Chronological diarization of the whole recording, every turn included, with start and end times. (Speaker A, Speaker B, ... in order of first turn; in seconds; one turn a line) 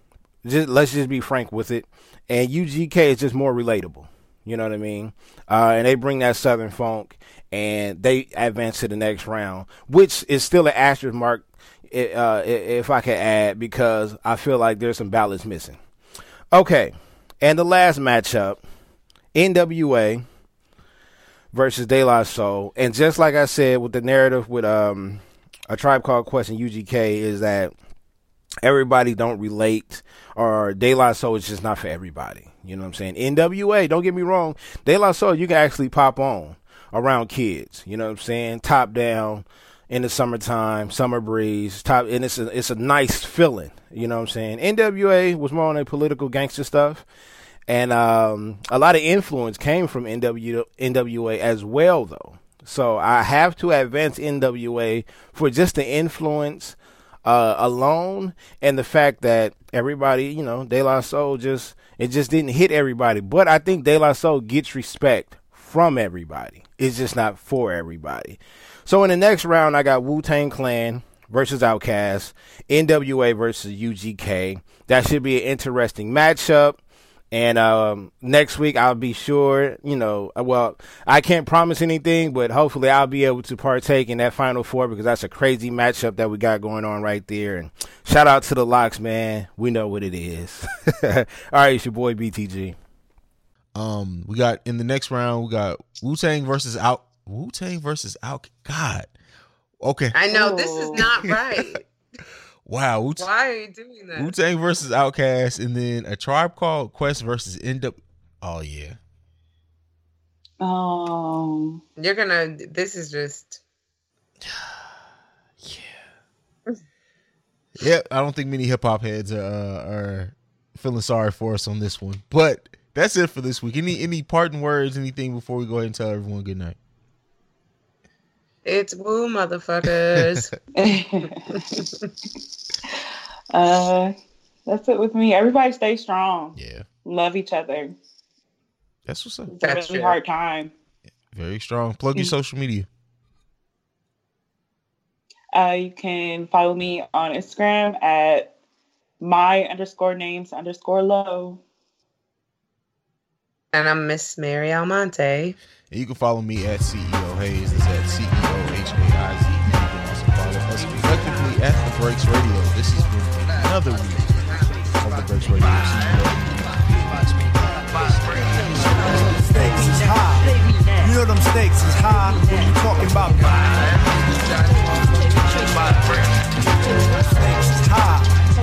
Speaker A: 0.4-15.8
Speaker A: 16.5-18.6
Speaker A: 19.4-20.2
Speaker A: 21.5-27.7
Speaker A: 28.6-47.0
Speaker A: 47.7-76.8
Speaker A: 77.3-92.8
Speaker B: 93.8-99.1
Speaker B: 99.8-100.2
Speaker C: 100.1-101.8
Speaker D: 100.3-101.1
Speaker B: 101.0-101.7
Speaker B: 102.7-103.3
Speaker C: 103.2-104.3
Speaker B: 104.2-109.0
Speaker D: 110.6-111.8
Speaker C: 112.0-113.6
Speaker B: 114.4-115.0
Speaker B: 115.6-116.0
Speaker B: 117.8-126.8
Speaker C: 128.7-130.5
Speaker B: 129.9-130.5
Speaker D: 130.8-131.8
Speaker D: 133.5-134.1
Speaker D: 134.7-138.0
Speaker B: 136.6-136.9
Speaker B: 139.1-139.6
Speaker D: 139.5-140.7
Speaker C: 139.6-140.2
Speaker B: 141.3-142.9
Speaker D: 145.6-148.5
Speaker D: 149.2-151.6
Speaker C: 153.7-155.6
Speaker B: 155.9-168.3
Speaker E: 168.9-170.5
Speaker E: 171.0-174.2
Speaker E: 177.3-178.3